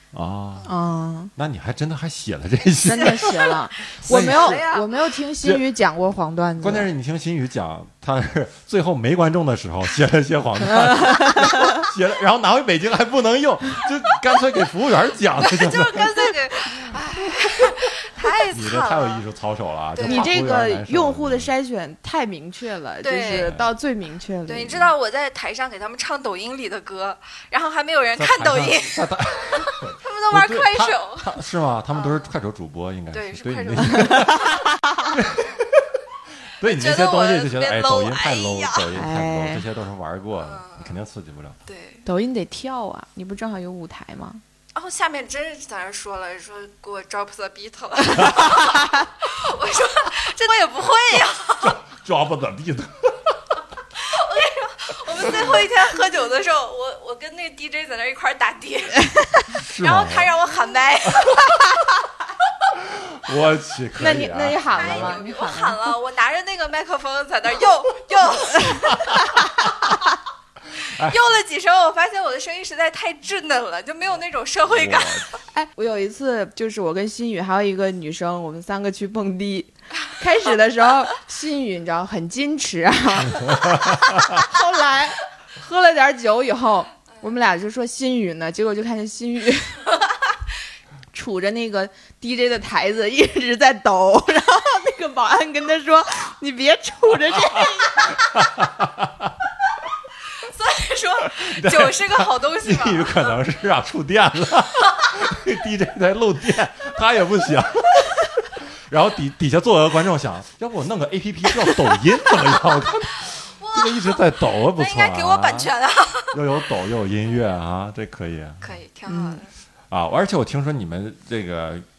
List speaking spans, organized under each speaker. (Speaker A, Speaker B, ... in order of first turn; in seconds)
Speaker A: 0.1-0.7, 1.4-4.6, 6.6-16.3, 18.5-21.5, 23.3-23.7, 28.2-34.6, 35.1-35.9, 36.6-41.6, 51.6-53.4, 59.5-60.3, 62.8-65.2, 70.9-71.2, 74.7-75.3, 98.3-99.3, 101.3-115.7, 116.3-118.8, 119.9-121.8
Speaker B: 0.7-1.3, 2.8-6.9, 11.3-11.8, 20.0-24.7, 38.9-39.6, 42.0-44.4, 64.0-65.9, 75.5-89.8, 91.1-98.3, 119.1-119.4
Speaker C: 3.9-4.9, 15.4-19.2, 19.9-20.3, 23.0-23.5, 24.5-31.3, 31.9-32.2, 33.1-34.6, 36.6-38.9, 40.4-41.0, 41.6-42.1, 44.7-51.8, 54.0-59.1, 59.8-61.8, 64.7-69.2, 71.0-75.3, 100.3-103.3, 113.5-116.4, 118.6-119.5